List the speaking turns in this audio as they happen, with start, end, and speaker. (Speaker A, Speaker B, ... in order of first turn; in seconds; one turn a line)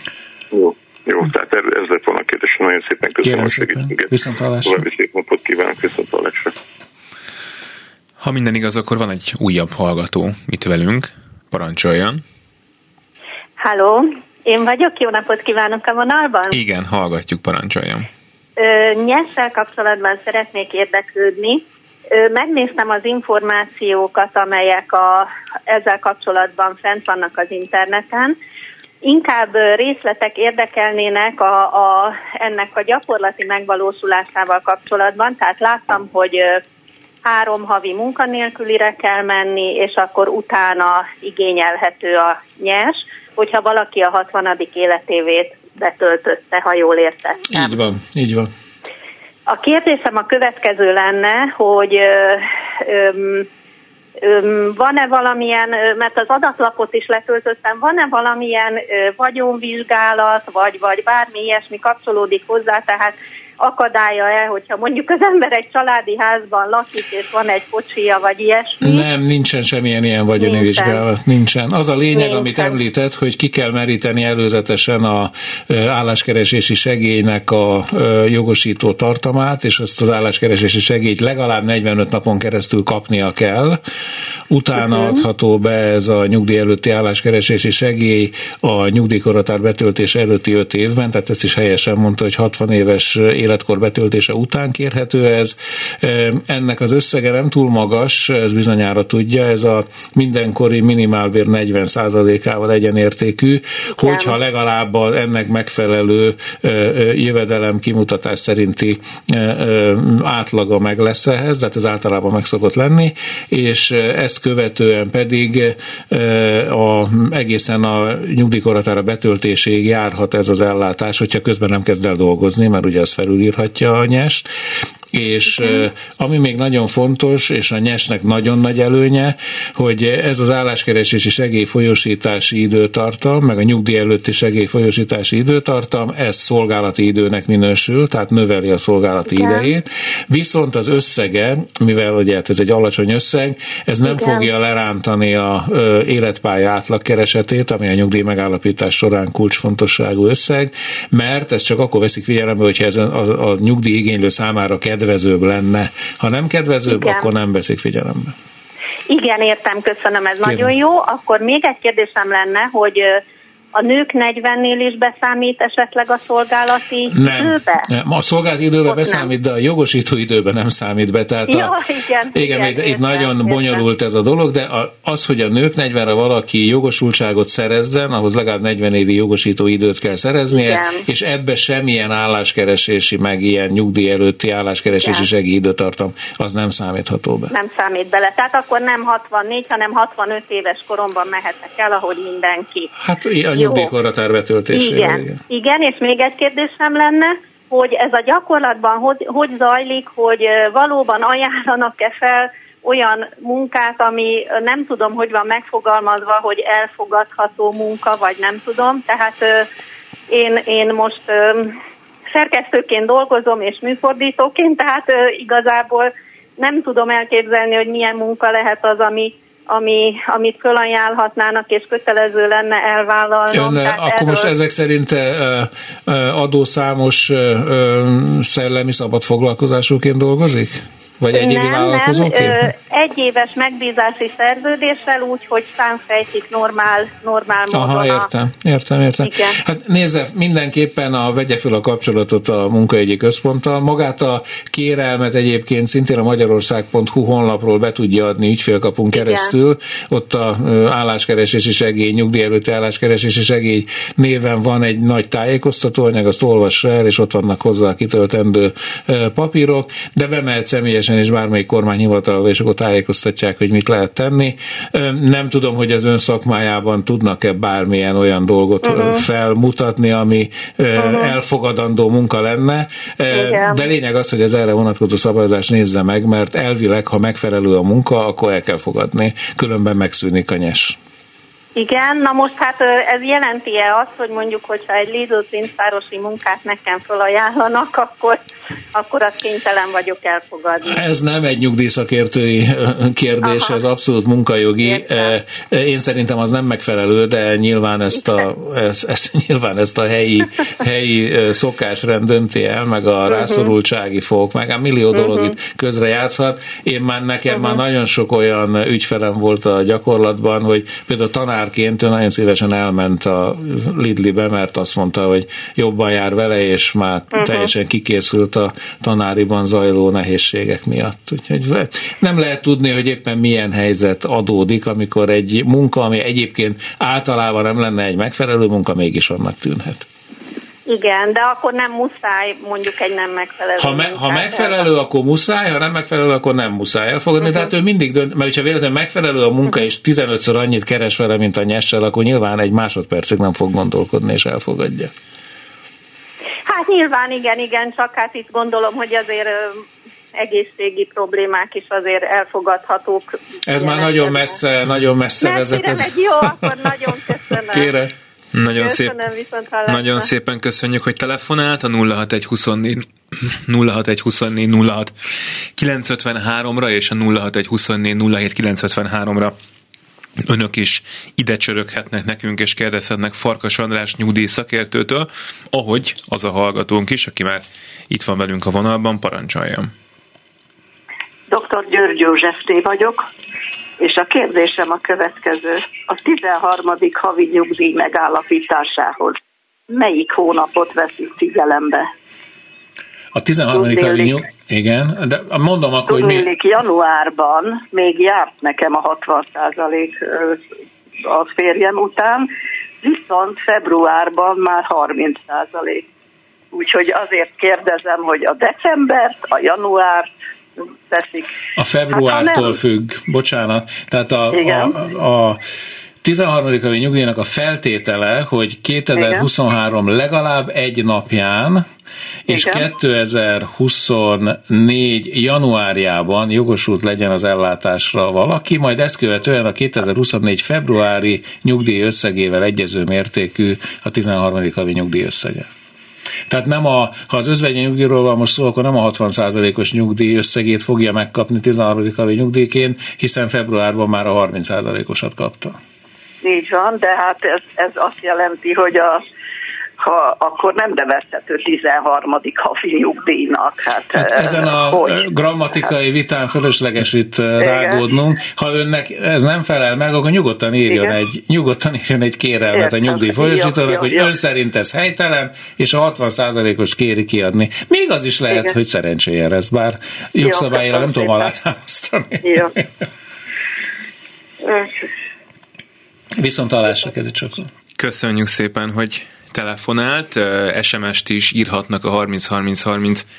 Speaker A: 0.5-4.1
Speaker B: 3.2-4.8
Speaker A: 4.6-6.5
Speaker C: 8.2-12.2
Speaker D: 13.6-16.6
Speaker C: 16.5-18.1
Speaker D: 18.6-28.4
Speaker D: 29.0-36.6
Speaker D: 37.2-47.8
Speaker B: 47.5-48.5
Speaker D: 49.5-53.5
Speaker D: 54.2-69.0
Speaker B: 68.8-83.8
Speaker D: 70.4-71.0
Speaker D: 72.1-72.8
Speaker B: 84.5-124.5
Speaker D: 104.0-104.3
Speaker B: 125.1-158.3
Speaker D: 156.9-157.3
Speaker D: 159.1-163.2
Speaker B: 160.4-160.7
Speaker D: 163.7-167.9
Speaker B: 167.1-171.8
Speaker D: 168.8-169.3
Speaker D: 171.5-173.8
Speaker B: 172.3-187.5
Speaker D: 180.5-181.0
Speaker D: 184.9-185.3
Speaker D: 187.5-192.9
Speaker B: 193.0-195.4
Speaker D: 193.5-193.9
Speaker D: 194.7-209.7
Speaker D: 210.3-211.8
Speaker D: 212.3-224.5
Speaker B: 223.5-232.7
Speaker D: 231.3-238.3
Speaker B: 237.7-281.0
Speaker D: 239.2-239.6
Speaker D: 249.1-249.5
Speaker D: 271.0-271.3
Speaker D: 273.4-273.8
Speaker D: 281.7-291.0
Speaker B: 290.8-330.1
Speaker D: 293.4-293.8
Speaker D: 294.8-295.3
Speaker D: 303.3-303.7
Speaker D: 305.1-305.5
Speaker D: 307.5-307.8
Speaker D: 317.4-317.6
Speaker D: 330.9-334.9
Speaker B: 333.8-345.1
Speaker D: 337.4-337.7
Speaker D: 346.7-349.8
Speaker D: 350.4-354.6
Speaker B: 353.6-358.1
Speaker D: 355.4-357.9
Speaker C: 358.5-359.2
Speaker D: 358.8-360.3
Speaker C: 359.9-365.1
Speaker C: 365.8-369.5
Speaker C: 370.4-379.9
Speaker E: 381.5-383.3
Speaker E: 384.0-389.4
Speaker E: 389.9-392.1
Speaker B: 393.3-396.5
Speaker E: 393.7-394.4
Speaker E: 396.1-400.6
Speaker E: 401.2-402.5
Speaker E: 403.0-406.0
Speaker E: 406.7-410.3
Speaker E: 411.1-411.5
Speaker B: 411.8-415.6
Speaker E: 412.1-412.8
Speaker E: 414.5-415.0
Speaker B: 416.2-421.9
Speaker E: 419.1-419.5
Speaker B: 422.5-435.7
Speaker E: 422.5-422.9
Speaker B: 436.5-445.8
Speaker E: 446.4-449.2
Speaker E: 450.0-455.9
Speaker B: 454.1-472.8
Speaker E: 457.6-458.0
Speaker E: 460.9-461.2
Speaker E: 462.7-464.4
Speaker E: 468.5-468.7
Speaker E: 470.4-471.5
Speaker E: 472.4-472.7
Speaker E: 474.6-474.9
Speaker B: 476.4-477.7
Speaker C: 478.0-483.2